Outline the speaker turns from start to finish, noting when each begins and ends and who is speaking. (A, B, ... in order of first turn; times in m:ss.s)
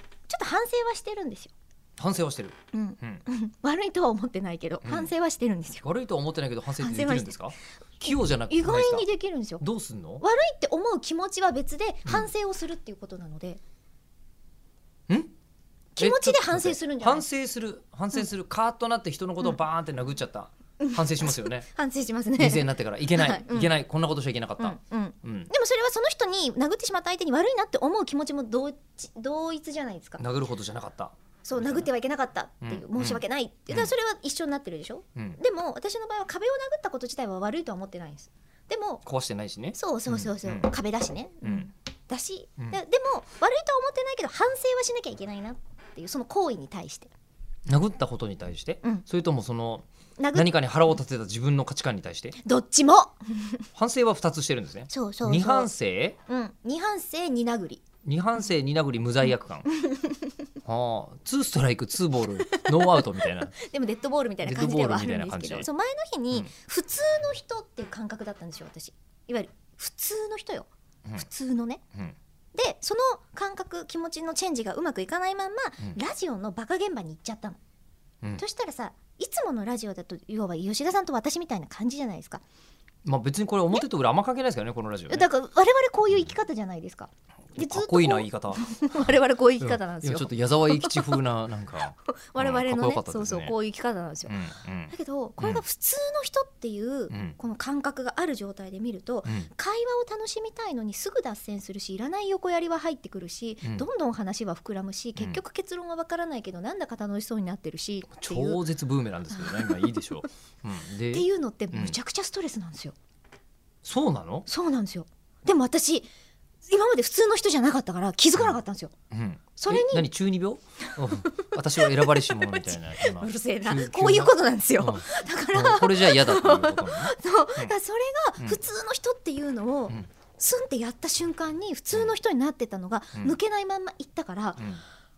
0:00.3-0:01.5 A
0:02.0-0:03.2 B
0:02.7-0:05.8 A
0:04.8-0:05.1 B
0:05.8-0:09.1 B
0:06.8-0:07.5 A
0:08.0-0:09.6 A
0:09.6-0:10.2 B
0:10.2-0:13.6 A
0:16.0-0:17.3 A
0:16.0-0:21.6 B
0:20.8-0:23.7 A
0:22.4-0:25.5 B
0:24.6-0:30.2 A
0:30.2-0:31.9 B
0:31.4-0:39.0 A
0:32.6-0:33.9 B
0:39.0-0:40.7 B
0:39.8-0:47.1 A
0:41.4-0:41.7 B
0:47.7-0:52.4 B
0:50.2-0:50.5 A
0:52.4-0:53.6 A
0:53.8-0:56.2 B
0:54.9-0:55.7 A
0:56.3-0:57.8 A
0:58.0-0:59.7 B
0:59.7-1:00.3 A
1:00.6-1:03.5 B
1:02.5-1:11.8 A
1:04.4-1:05.7 B
1:12.5-1:17.6 A
1:18.4-1:22.4 A
1:23.0-1:25.3 B
1:25.1-1:31.2 A
1:27.6-1:33.5 B
1:31.8-1:34.3 A
1:34.3-1:35.6 B
1:34.9-1:48.6 A
1:37.1-1:37.4 B
1:48.2-1:52.0 B
1:49.3-1:50.3 A
1:51.1-1:53.0 A
1:53.8-1:54.5 B
1:54.5-1:56.1 A
1:56.7-1:58.9 A
1:59.1-2:07.7 B
1:59.6-2:00.1 A
2:00.9-2:14.6 A
2:14.6-2:14.8 B